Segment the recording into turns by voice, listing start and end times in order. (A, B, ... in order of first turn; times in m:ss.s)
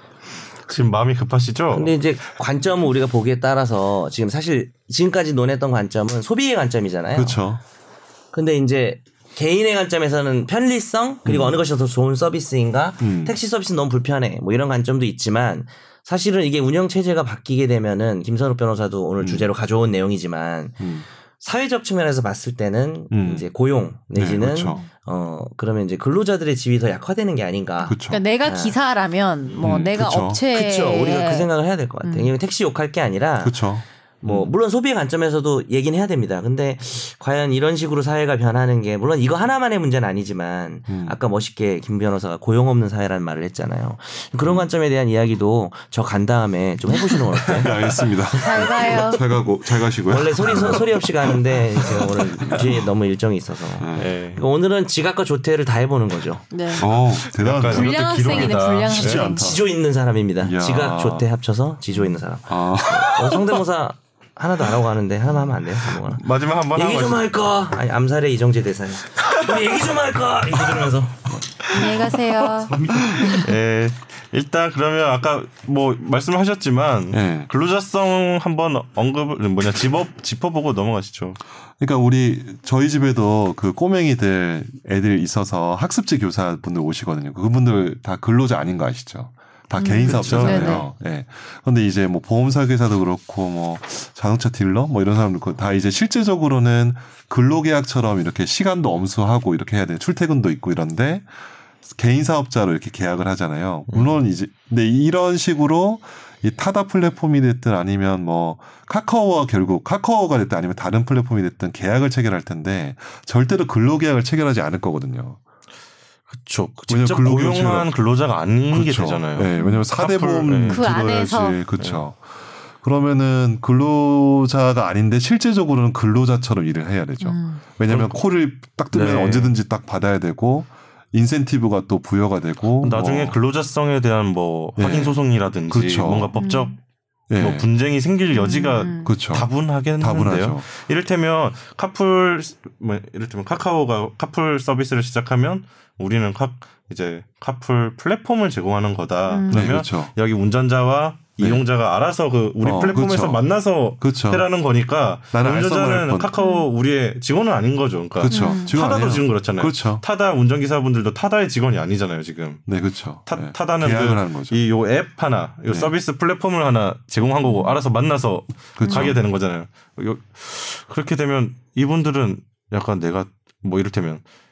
0:00.7-0:01.9 A
0:01.7-0:07.4 B
0:07.1-0:07.6 C
0:08.3-0:28.8 B
0:11.2-0:11.6 C
0:13.0-0:13.3 C
0:19.2-0:19.5 C
0:20.8-0:21.0 C
0:23.1-0:23.5 C
0:24.1-0:24.8 C
0:27.8-0:28.2 C
0:28.1-0:31.5 D
0:29.6-0:30.4 C
0:30.5-0:33.6 B
0:32.0-0:32.3 D
0:33.4-0:34.5 C
0:34.2-0:49.2 B
0:40.9-0:41.2 C
0:44.4-0:44.7 C
0:47.5-0:52.9 C
0:48.3-0:49.2 D
0:50.0-0:56.4 B
0:53.8-0:54.2 C
0:54.0-0:54.4 A
0:56.5-0:56.9 D
0:56.8-0:59.6 C
0:56.9-0:59.2 A
0:57.6-0:59.5 D
0:59.2-1:11.4 B
1:00.4-1:01.2 C
1:02.5-1:03.6 C
1:06.1-1:07.3 A
1:11.7-1:12.7 D
1:12.7-1:13.5 C
1:12.8-1:21.4 A
1:17.1-1:17.5 C
1:21.8-1:41.3 C
1:29.8-1:30.9 D
1:30.0-1:30.8 A
1:41.8-1:55.4 C
1:43.9-1:44.2 A
1:56.3-2:00.8 A
1:56.9-1:57.9 C
1:58.7-2:13.4 C
1:59.6-1:59.9 D
2:00.7-2:01.6 D
2:07.2-2:07.6 D
2:07.9-2:08.2 A
2:08.9-2:09.5 A
2:12.8-2:16.8 A
2:14.8-2:16.3 C
2:16.4-2:16.7 D
2:17.3-2:17.7 C
2:17.4-2:42.7 A
2:18.3-2:19.2 D
2:19.0-2:20.6 C
2:29.3-2:29.7 D
2:29.5-2:30.1 C
2:31.4-2:31.6 C
2:32.6-2:33.4 C
2:34.0-2:34.4 C
2:35.3-2:36.3 C
2:36.4-2:36.6 D
2:38.2-2:40.0 C
2:38.3-2:38.7 D
2:42.7-2:44.6 C
2:43.2-2:54.2 A
2:47.4-2:47.7 D
2:48.8-2:49.2 C
2:48.8-2:49.1 D